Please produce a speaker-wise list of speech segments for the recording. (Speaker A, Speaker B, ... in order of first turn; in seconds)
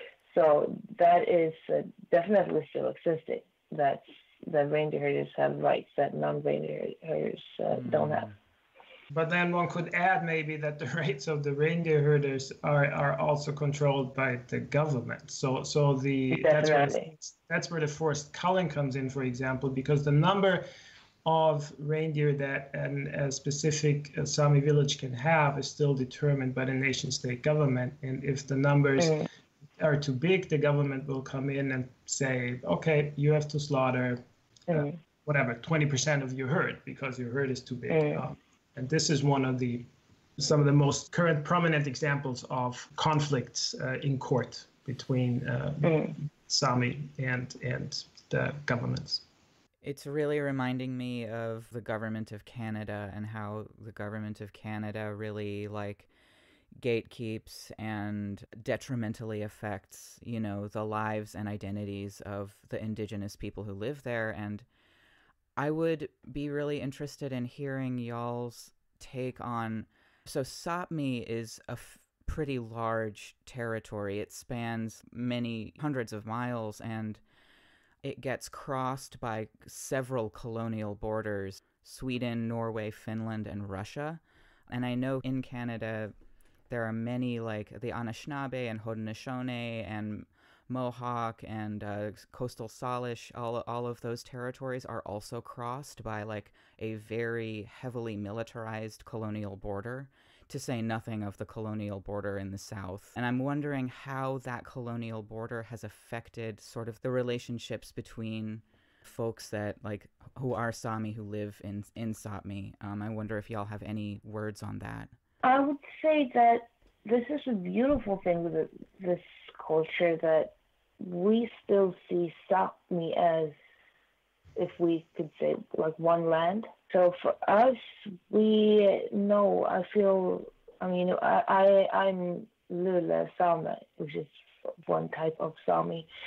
Speaker A: 0.3-8.3, 16.3-17.1, 29.0-29.3, 34.7-35.0, 37.9-38.2, 45.8-46.1, 115.4-123.6, 124.6-136.1
Speaker B: 7.9-8.3, 49.8-56.1, 56.8-64.7, 65.6-77.2, 78.0-86.2, 86.7-115.1
Speaker C: 9.1-20.6, 21.2-29.2, 29.8-39.9, 40.4-49.2